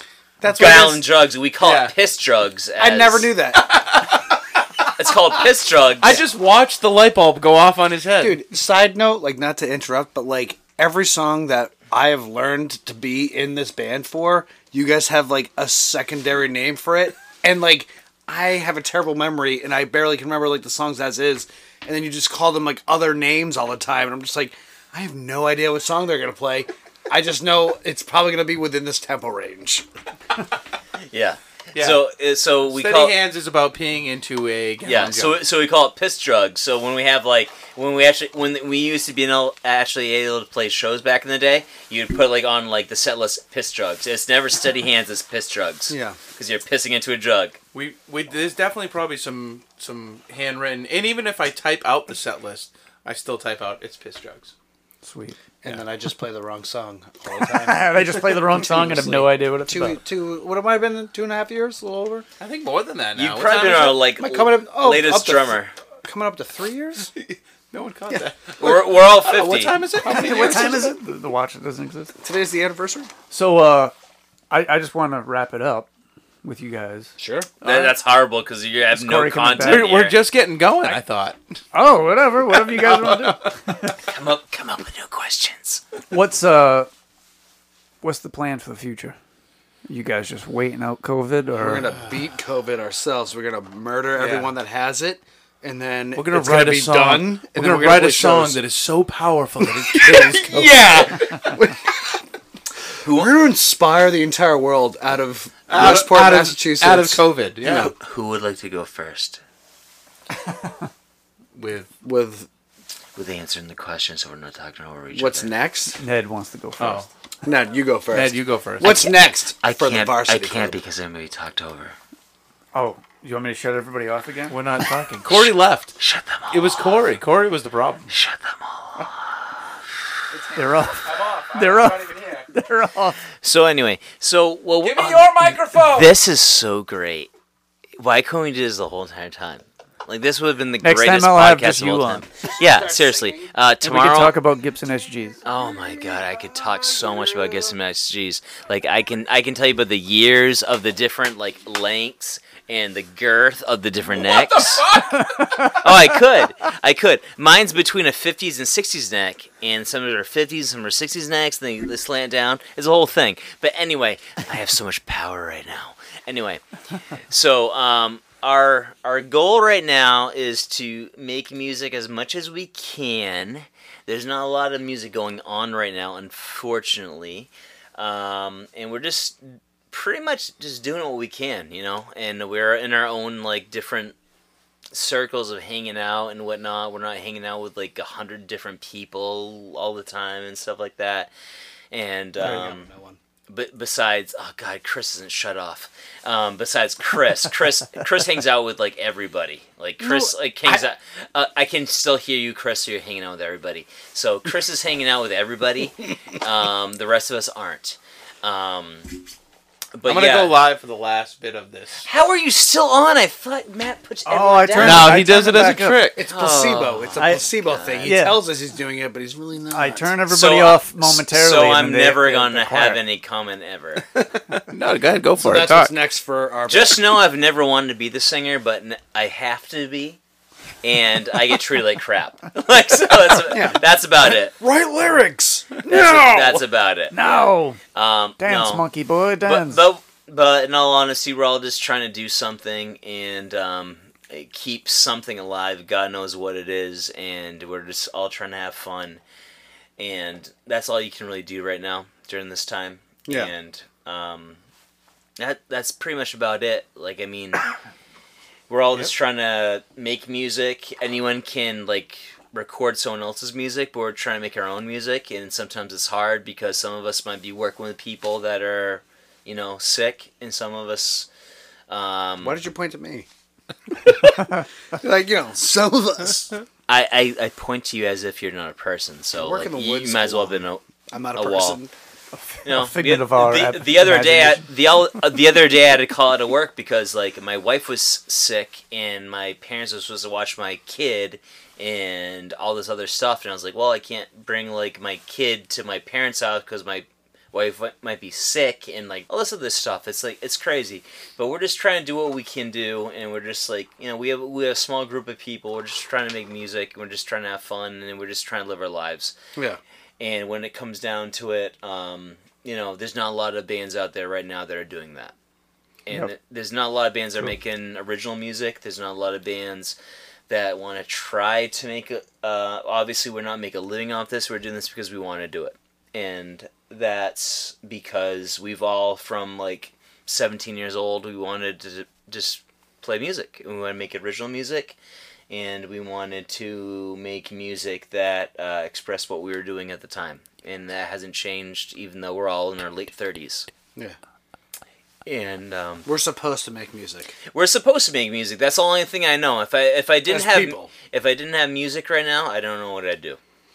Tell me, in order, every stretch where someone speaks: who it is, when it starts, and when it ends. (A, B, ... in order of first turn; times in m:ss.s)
0:00.4-0:01.0 A
0:00.5-0:03.3 B
0:01.6-0:01.9 C
0:02.8-0:03.7 A
0:03.6-0:04.2 C
0:05.0-0:06.2 B
0:06.0-0:08.4 C
0:08.2-0:29.9 A
0:31.1-0:33.2 B
0:31.8-0:32.0 C
0:32.6-0:35.4 C
0:34.8-0:47.6 B
0:45.9-0:46.2 A
0:47.7-0:54.5 C
0:55.0-0:55.4 D
0:55.6-1:02.3 A
0:57.4-1:00.0 D
1:02.4-1:04.0 C
1:03.2-1:05.7 B
1:04.2-1:07.1 A
1:07.2-1:11.0 C
1:08.6-1:09.8 B
1:10.0-1:12.1 D
1:12.2-1:13.1 A
1:13.3-1:13.9 D
1:14.5-1:15.9 D
1:16.4-1:17.2 D
1:17.2-1:17.5 A
1:17.6-1:20.2 B
1:18.9-1:19.9 D
1:19.6-1:21.6 C
1:21.7-1:24.0 D
1:22.5-1:23.6 C
1:24.1-1:25.8 B
1:26.1-1:26.9 D
1:28.0-1:29.2 D
1:29.9-1:31.9 D
1:31.6-1:38.6 A
1:34.2-1:34.5 C
1:36.2-1:41.5 C
1:39.9-1:42.0 A
1:40.5-1:41.2 B
1:43.0-1:43.4 B
1:43.0-1:47.9 A
1:45.7-1:47.9 C
1:47.6-1:49.4 B
1:51.6-1:52.5 A
1:53.2-1:55.5 B
1:55.1-1:56.0 A
1:56.0-1:57.1 D
1:56.8-1:57.1 C
1:57.4-2:00.8 A
1:58.1-1:59.0 C
1:58.8-2:02.0 B
2:02.7-2:04.6 D
2:04.5-2:06.0 C
2:06.0-2:07.1 B
2:06.5-2:08.1 C
2:08.1-2:09.3 B
2:10.3-2:12.5 C
2:10.6-2:13.2 D
2:13.4-2:17.3 B
2:14.8-2:16.2 C
2:18.0-2:24.4 B
2:20.8-2:22.3 D
2:22.4-2:23.5 A
2:23.8-2:25.4 D
2:25.4-2:35.0 B
2:25.5-2:26.0 A
2:26.9-2:27.7 A
2:34.7-2:35.2 C
2:35.3-2:35.8 D
2:35.6-2:46.6 B
2:47.3-3:04.2 B
3:04.9-3:11.3 B
3:11.9-3:12.9 B
3:12.4-3:13.2 A
3:13.5-3:29.2 B
3:20.0-3:20.8 A
3:30.0-3:30.6 B
3:30.0-3:32.1 C
3:32.0-3:35.2 B
3:34.3-3:36.1 D
3:34.8-3:36.2 C
3:36.2-3:40.2 A
3:36.3-3:38.2 B
3:37.2-3:37.4 D
3:38.0-3:38.4 D
3:39.7-3:43.0 D
3:40.3-3:44.0 B
3:44.5-3:45.9 C
3:45.4-3:47.2 A
3:46.7-3:50.2 B
3:50.8-3:54.6 B
3:53.5-3:53.8 A
3:54.5-3:56.6 A
3:55.9-3:58.9 B
3:57.1-3:57.8 D
3:58.4-3:59.8 D
3:59.4-4:09.2 B
4:10.0-4:14.6 B
4:13.3-4:13.5 A
4:15.4-4:17.6 B
4:18.7-4:31.3 B
4:31.9-4:32.6 B
4:32.4-4:33.3 A
4:34.0-4:36.6 A
4:36.9-4:41.8 B
4:39.4-4:41.9 A
4:42.3-4:44.7 D
4:42.6-5:09.4 B
5:10.2-5:15.3 B
5:16.1-5:20.0 B
5:20.5-5:35.0 B
5:35.5-5:43.7 B
5:45.2-5:46.1 B
5:46.0-5:47.4 A
5:47.5-5:53.4 B
5:50.2-5:50.9 A